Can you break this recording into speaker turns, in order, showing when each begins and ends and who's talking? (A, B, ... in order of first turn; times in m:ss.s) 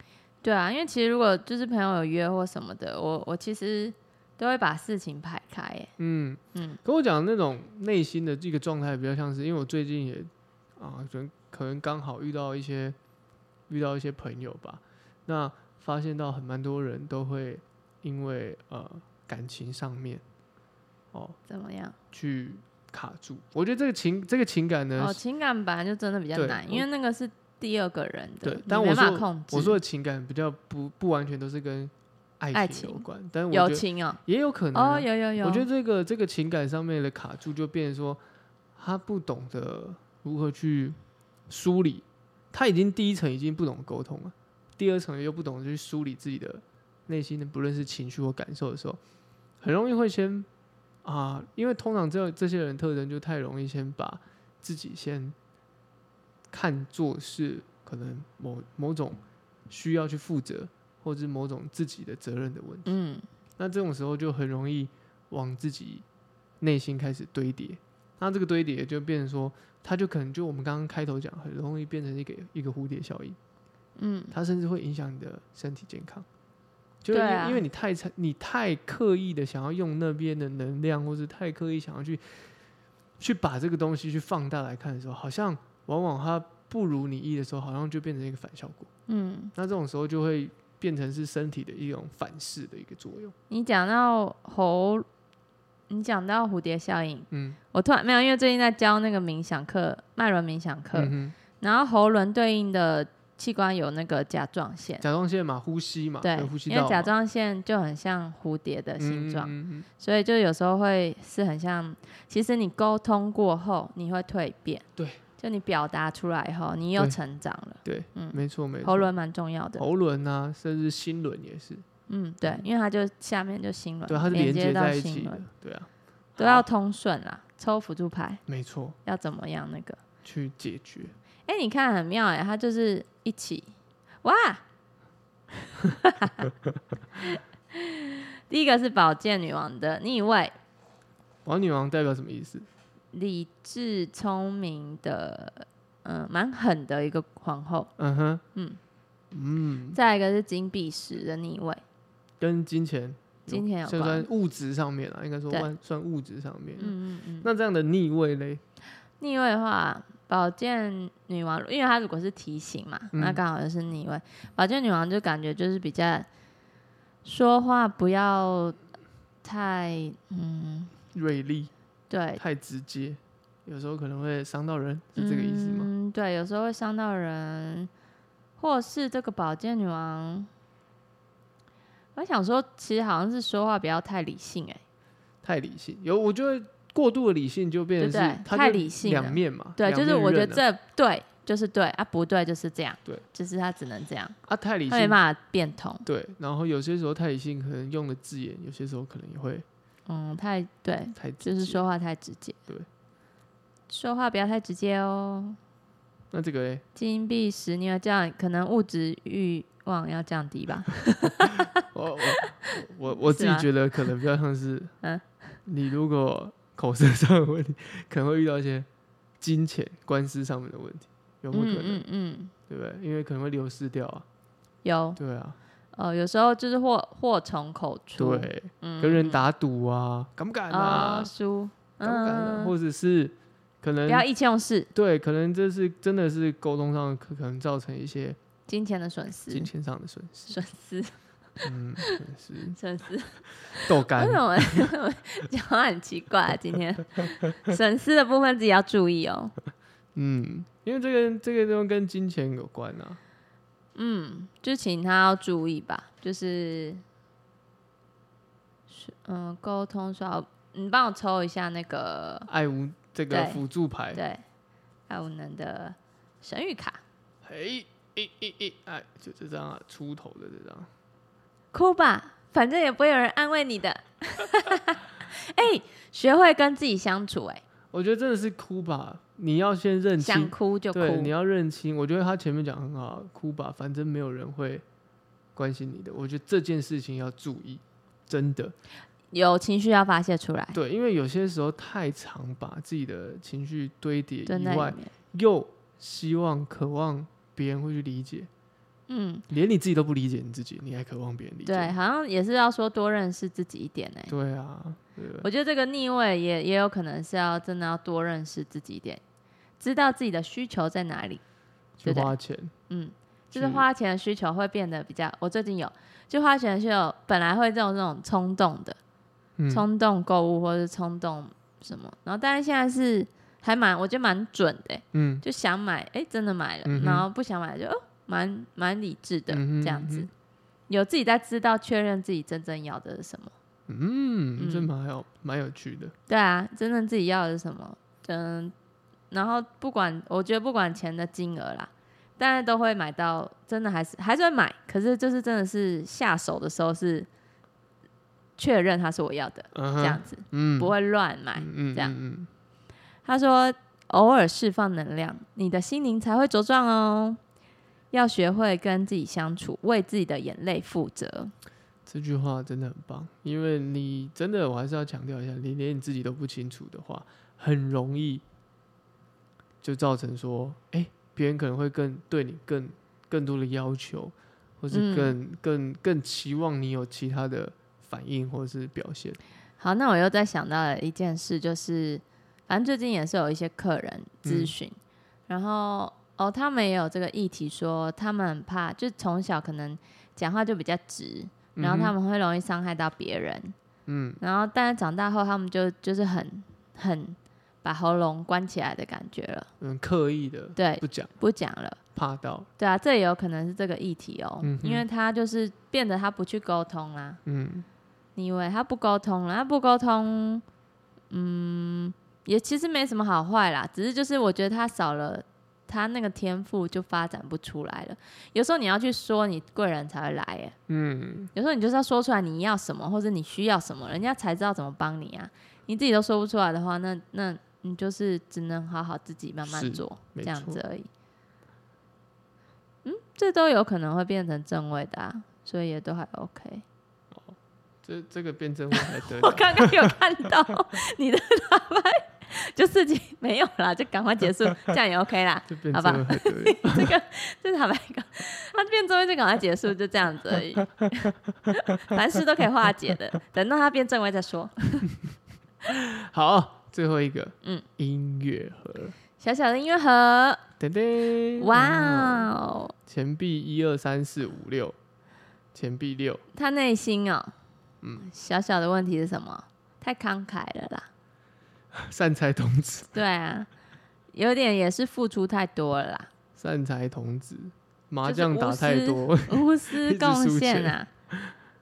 0:00.4-0:05.9 A
0:06.0-0:13.0 B
0:13.7-0:20.2 B
0:21.5-0:22.0 A
0:22.1-0:25.2 B
0:25.0-0:29.8 A
0:26.3-0:26.8 B
0:28.4-0:38.2 B
0:32.5-0:34.2 A
0:34.7-0:35.7 A
0:38.8-0:41.0 B
0:41.5-0:49.0 B
0:49.6-0:50.5 B
0:51.0-0:55.4 B
0:56.5-1:02.9 B
1:02.8-1:03.2 A
1:03.6-1:06.0 B
1:06.6-1:13.4 B
1:14.0-1:14.3 A
1:14.3-1:16.2 B
1:17.0-1:22.4 B
1:17.1-1:17.6 A
1:23.2-1:28.9 B
1:29.1-1:29.5 A
1:29.5-1:33.3 B
1:33.5-1:35.0 A
1:35.9-1:45.0 A
1:37.3-1:37.6 B
1:40.9-1:41.3 B
1:45.0-1:47.1 B
1:46.2-1:54.8 A
1:49.0-1:49.9 B
1:55.4-1:59.8 A
1:57.8-1:59.1 B
1:59.8-2:01.8 B
2:02.1-2:05.4 A
2:04.1-2:06.6 B
2:06.4-2:08.4 A
2:08.5-2:09.0 B
2:09.0-2:10.0 A
2:10.2-2:11.1 B
2:11.4-2:13.7 A
2:14.2-2:14.6 A
2:15.8-2:16.5 A
2:17.2-2:20.5 A
2:21.4-2:22.7 B
2:23.1-2:27.9 A
2:28.0-2:28.4 B
2:29.3-2:30.0 B
2:29.9-2:31.8 A
2:32.4-2:38.6 B
2:33.5-2:34.3 A
2:36.8-2:37.5 A
2:39.2-2:46.3 A
2:43.1-2:43.4 B
2:47.2-2:48.8 A
2:49.4-2:50.9 A
2:51.1-2:51.7 B
2:52.1-2:52.4 A
2:52.4-2:55.9 B
2:55.2-2:57.9 A
2:58.6-3:00.5 A
3:02.1-3:04.8 A
3:05.4-3:10.6 B
3:08.0-3:14.4 A
3:14.5-3:15.2 B
3:14.9-3:16.0 A
3:16.0-3:19.6 B
3:20.1-3:22.6 A
3:21.1-3:21.8 B
3:23.9-3:25.6 A
3:26.3-3:26.8 B
3:26.9-3:32.5 A
3:31.4-3:34.9 B
3:33.2-3:33.7 A
3:35.6-3:38.9 B
3:39.4-3:42.0 B
3:41.5-3:42.5 A
3:42.7-3:44.2 B
3:44.8-3:45.2 A
3:45.2-3:45.6 B
3:45.9-3:49.4 A
3:48.2-3:51.3 B
3:50.7-3:52.7 A
3:52.0-3:54.2 B
3:54.1-3:54.9 A
3:54.9-3:58.4 B
3:58.7-3:59.7 A
3:59.5-4:00.6 B
4:00.5-4:01.1 A
4:01.6-4:02.8 B
4:02.8-4:09.5 A
4:03.8-4:04.9 B
4:10.1-4:13.2 B
4:13.9-4:17.0 A
4:18.9-4:22.5 A
4:22.5-4:24.2 B
4:23.3-4:23.6 A
4:24.1-4:24.4 A
4:25.1-4:27.0 A
4:27.4-4:30.9 B
4:31.7-4:37.6 A
4:37.9-4:44.8 B
4:40.2-4:41.3 A
4:45.5-4:48.7 B
4:49.3-4:50.8 A
4:50.7-4:58.5 B
4:54.4-4:55.1 A
4:59.1-4:59.4 A
4:59.5-5:01.9 B
5:01.6-5:04.3 A
5:04.3-5:05.5 B
5:05.4-5:09.2 A
5:09.8-5:11.4 A
5:12.0-5:12.7 B
5:12.0-5:12.3 A
5:12.9-5:19.0 A
5:13.5-5:13.8 B
5:19.6-5:19.8 B
5:19.7-5:30.3 A
5:25.1-5:25.4 B
5:26.8-5:27.2 B
5:29.5-5:30.3 B
5:30.9-5:33.5 A
5:33.9-5:36.1 B
5:34.6-5:34.9 A
5:36.3-5:38.7 A
5:39.3-5:47.3 A
5:48.6-5:52.2 A
5:49.7-5:50.9 B
5:51.6-5:52.5 B
5:53.2-5:57.4 A
5:58.1-6:01.5 A
6:02.0-6:08.4 B
6:09.8-6:19.4 B
6:14.9-6:15.4 A
6:19.8-6:25.0 A
6:24.4-6:24.7 B
6:25.5-6:33.7 A
6:31.8-6:32.1 B
6:34.0-6:34.4 B
6:34.4-6:39.7 A
6:39.8-6:41.3 B
6:40.8-6:42.0 A
6:42.1-6:42.7 B
6:42.8-6:47.4 A
6:44.6-6:45.0 B
6:47.4-6:47.8 B
6:48.4-6:50.6 A
6:51.3-7:00.8 A
7:00.9-7:01.5 B
7:01.5-7:11.1 A
7:09.7-7:10.8 B
7:13.0-7:16.8 A
7:17.3-7:20.1 B
7:19.0-7:35.1 A
7:25.7-7:27.1 B
7:35.8-7:39.2 B
7:39.4-7:40.6 A
7:40.8-7:42.5 B
7:41.6-7:42.9 A
7:43.0-7:45.0 B
7:45.7-7:46.4 B
7:46.5-7:47.5 A
7:48.0-7:48.3 B
7:48.2-7:51.1 A
7:51.9-7:53.2 B
7:53.1-7:53.7 A
7:54.3-7:56.3 A
7:56.6-8:01.5 B
7:58.2-8:01.1 A